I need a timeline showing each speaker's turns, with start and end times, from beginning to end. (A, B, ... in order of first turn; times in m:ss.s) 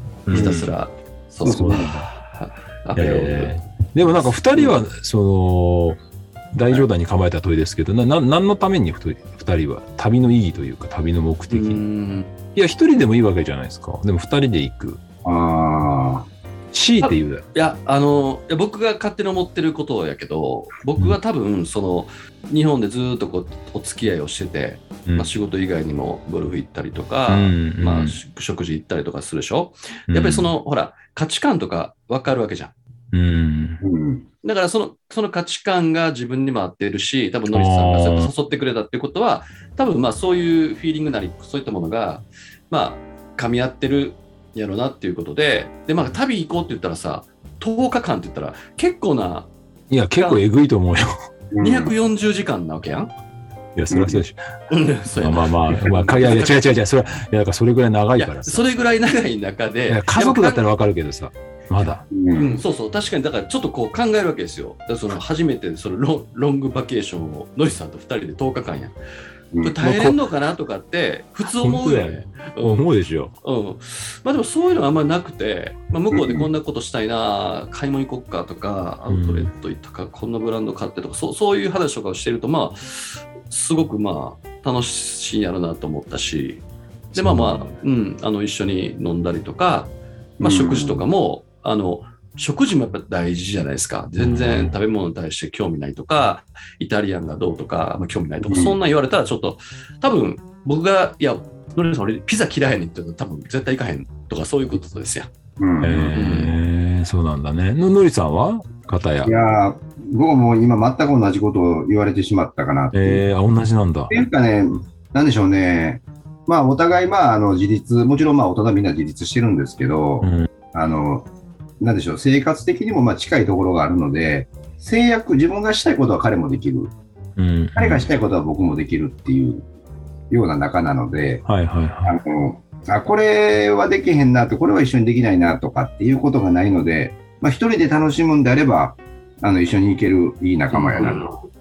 0:00.2-0:00.7 A
0:00.3-0:03.5 B
0:01.4-0:02.0 A
0:01.4-0:01.8 C
0:03.0-0:06.0 A
0:04.0-0:04.8 B
0:06.5-0:11.8 A
0:11.5-0:12.3 B
0:12.5-0:15.0 A
0:15.2-0:16.3 C
0:16.7-0:17.4 A
0:17.0-0:32.7 B
0:27.3-0:28.2 A
0:30.1-0:30.5 A
0:33.1-0:33.8 A
0:33.8-0:34.2 C
0:34.4-0:49.5 B
0:37.5-0:38.3 A
0:49.9-0:51.1 A
0:50.2-0:50.4 B
0:51.5-0:51.9 C
0:51.6-0:53.1 B
0:53.7-0:54.4 A
0:53.9-0:54.2 C
0:54.7-0:56.6 B
0:55.1-0:58.7 A
0:58.2-1:00.6 B
0:59.9-1:02.0 A
1:02.1-1:02.6 C
1:02.3-1:08.9 B
1:09.6-1:12.8 B
1:09.8-1:10.2 A
1:11.4-1:13.3 A
1:13.4-1:26.6 B
1:16.1-1:16.5 C
1:19.1-1:19.5 A
1:27.1-1:27.7 A
1:27.1-1:45.3 B
1:30.4-1:31.0 C
1:34.2-1:34.8 A
1:38.4-1:38.8 C
1:45.6-1:46.1 C
1:45.8-1:49.4 A
1:46.1-1:46.6 B
1:49.2-1:53.3 C
1:52.9-1:54.1 A
1:54.1-2:01.3 C
2:00.2-2:00.5 A
2:01.8-2:06.9 C
2:07.4-2:08.1 A
2:07.8-2:09.6 C
2:10.3-2:11.4 C
2:11.4-2:12.2 A
2:12.0-2:21.3 C
2:20.7-2:21.3 B